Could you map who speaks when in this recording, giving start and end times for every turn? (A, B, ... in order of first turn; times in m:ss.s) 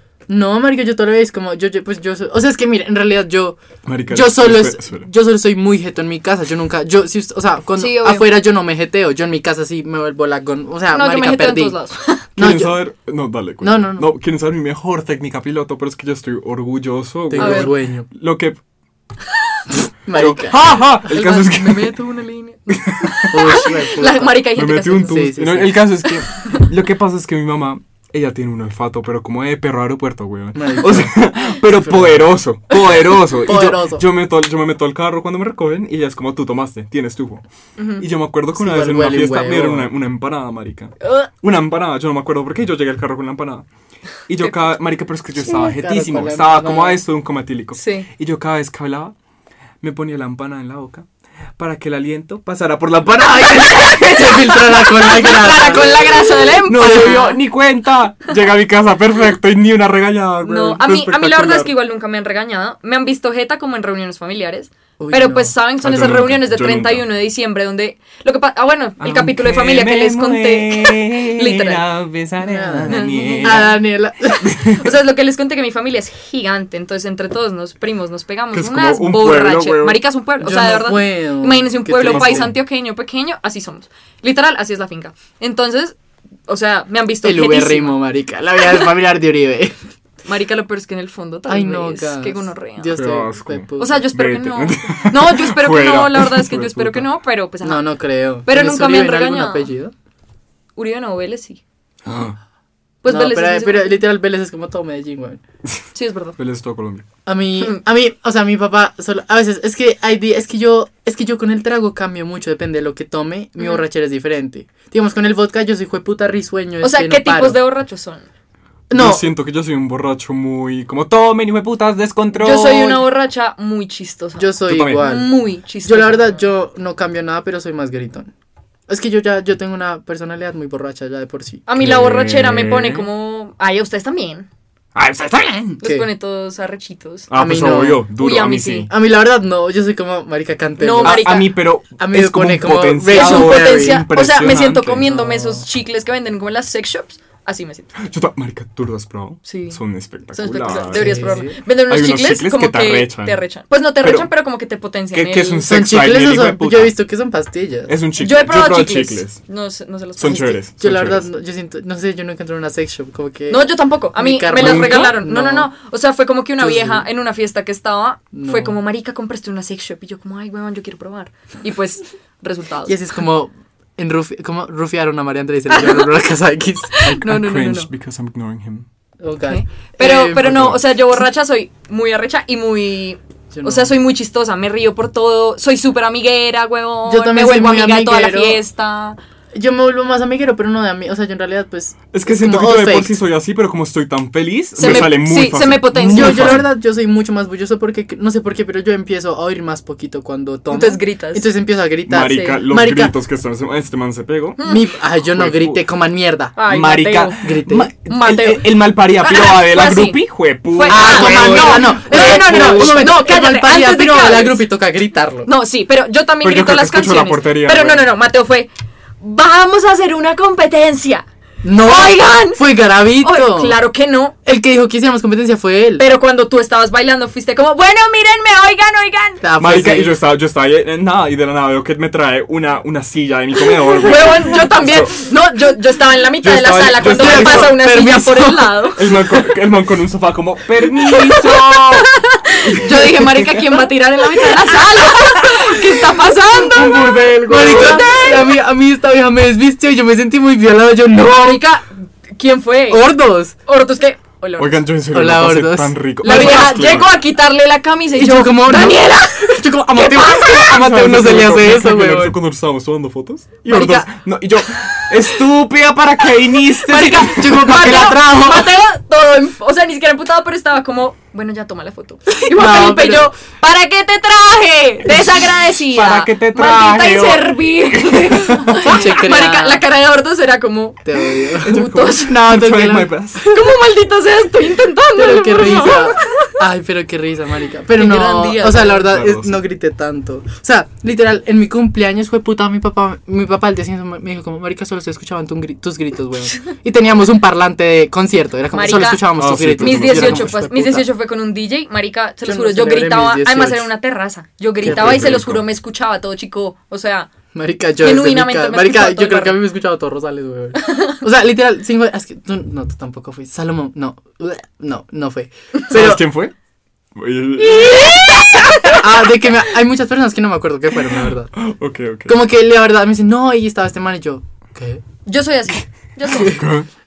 0:00.3-0:11.8 A
0:03.8-0:05.1 B
0:07.8-0:08.3 C
0:10.9-0:12.3 C
0:12.4-0:12.7 A
0:12.4-0:18.6 B
0:13.6-0:14.1 A
0:17.3-0:18.1 A
0:17.4-0:17.7 C
0:20.0-0:20.8 A
0:20.1-0:22.0 B
0:21.0-0:25.3 C
0:22.7-0:23.8 B
0:23.3-0:24.4 A
0:24.5-0:37.4 B
0:25.0-0:25.9 A
0:26.3-0:26.6 C
0:30.6-0:31.1 A
0:31.7-0:32.3 A
0:33.4-0:34.0 A
0:37.8-0:38.0 C
0:38.0-0:43.6 B
0:38.5-0:39.9 A
0:41.0-0:41.3 C
0:44.3-0:49.1 B
0:45.5-0:47.0 A
0:47.7-0:48.1 C
0:49.8-0:51.0 B
0:51.6-0:54.8 B
0:53.7-0:57.4 C
0:53.9-0:56.2 A
0:56.6-1:01.7 B
0:56.8-0:57.1 A
1:00.4-1:11.8 C
1:05.0-1:05.5 A
1:05.8-1:07.0 B
1:09.0-1:13.8 B
1:12.4-1:14.5 A
1:12.9-1:13.7 C
1:14.4-1:26.0 C
1:14.5-1:14.8 B
1:18.5-1:20.0 B
1:20.4-1:22.5 A
1:22.0-1:22.5 B
1:26.5-1:28.0 C
1:27.2-1:29.8 A
1:30.2-1:33.0 C
1:31.5-1:34.1 A
1:32.9-1:37.1 B
1:33.8-1:37.9 C
1:37.6-1:39.9 A
1:38.4-1:39.7 C
1:40.8-1:41.6 C
1:42.0-1:42.4 B
1:43.0-1:44.0 C
1:43.0-1:45.4 A
1:45.9-1:46.4 C
1:46.4-1:47.0 B
1:47.2-1:57.6 A
1:56.8-1:58.3 C
1:58.9-1:59.2 A
1:58.9-2:03.0 B
2:02.3-2:06.4 C
2:04.4-2:08.3 A
2:04.7-2:05.0 B
2:08.9-2:11.6 A
2:11.7-2:14.5 C
2:11.8-2:13.1 B
2:14.9-2:15.8 B
2:15.8-2:17.3 C
2:15.8-2:16.1 A
2:17.3-2:18.9 B
2:17.3-2:18.0 A
2:18.2-2:18.9 C
2:18.9-2:24.0 A
2:20.8-2:21.5 C
2:21.0-2:25.1 B
2:23.1-2:27.9 C
2:25.0-2:25.6 A
2:28.0-2:33.4 B
2:29.4-2:29.8 C
2:30.3-2:35.6 C
2:30.9-2:31.6 A
2:34.0-2:34.3 B
2:35.1-2:36.9 B
2:35.6-2:37.9 A
2:37.9-2:39.4 B
2:38.2-2:40.6 C
2:40.2-2:41.2 B
2:40.2-2:45.7 A
2:43.5-2:53.0 C
2:44.5-2:45.2 B
2:46.6-2:47.1 A
2:48.3-2:48.8 A
2:52.8-2:57.1 A
2:55.7-2:56.1 C
2:56.9-2:57.9 C
2:57.0-2:58.8 B
2:59.2-3:00.8 A
2:59.5-3:09.2 C
3:03.5-3:03.9 A
3:07.1-3:08.6 A
3:09.5-3:13.2 A
3:12.1-3:16.7 B
3:14.8-3:16.6 C
3:14.8-3:15.2 A
3:16.1-3:23.1 A
3:20.7-3:21.5 C
3:22.1-3:24.6 B
3:22.2-3:22.6 C
3:24.6-3:24.8 C
3:24.6-3:26.6 A
3:25.2-3:25.8 B
3:26.6-3:27.4 C
3:26.7-3:33.1 B
3:27.4-3:27.9 A
3:28.1-3:34.6 C
3:30.9-3:35.5 A
3:35.4-3:38.7 C
3:36.4-3:38.1 B
3:39.2-3:41.2 C
3:41.6-3:43.8 A
3:41.8-3:42.6 C
3:43.2-3:44.3 C
3:44.4-3:46.0 A
3:46.0-3:49.4 C
3:49.4-3:50.2 A
3:49.6-3:55.1 B
3:54.0-3:59.1 C
3:56.4-3:57.8 B
3:57.1-3:58.8 A
3:59.0-4:03.8 B
4:02.4-4:08.3 C
4:05.0-4:05.9 B
4:06.6-4:08.4 B
4:06.8-4:11.6 A
4:11.2-4:14.8 C
4:12.9-4:13.5 A
4:14.6-4:17.1 B
4:15.1-4:17.0 A
4:16.2-4:20.7 C
4:18.2-4:22.4 A
4:20.4-4:28.0 B
4:23.7-4:24.1 C
4:25.0-4:25.3 C
4:26.8-4:42.4 C
4:26.9-4:28.7 A
4:32.3-4:33.3 A
4:35.1-4:38.9 B
4:38.8-4:39.8 A
4:41.0-4:43.6 A
4:41.6-4:43.4 B
4:43.5-4:46.5 C
4:45.2-5:01.1 A
4:47.9-4:49.1 C
4:49.1-4:49.6 B
4:58.7-5:07.3 C
4:59.3-5:00.5 B
5:02.4-5:03.9 A
5:04.8-5:05.4 A
5:04.8-5:05.6 B
5:07.5-5:16.2 A
5:08.0-5:09.6 C
5:10.8-5:11.2 C
5:15.9-5:16.5 B
5:17.2-5:19.0 B
5:17.6-5:19.0 C
5:18.9-5:21.5 A
5:21.6-5:22.4 B
5:22.3-5:25.0 A
5:25.2-5:26.6 C
5:26.3-5:26.6 A
5:26.4-5:26.9 B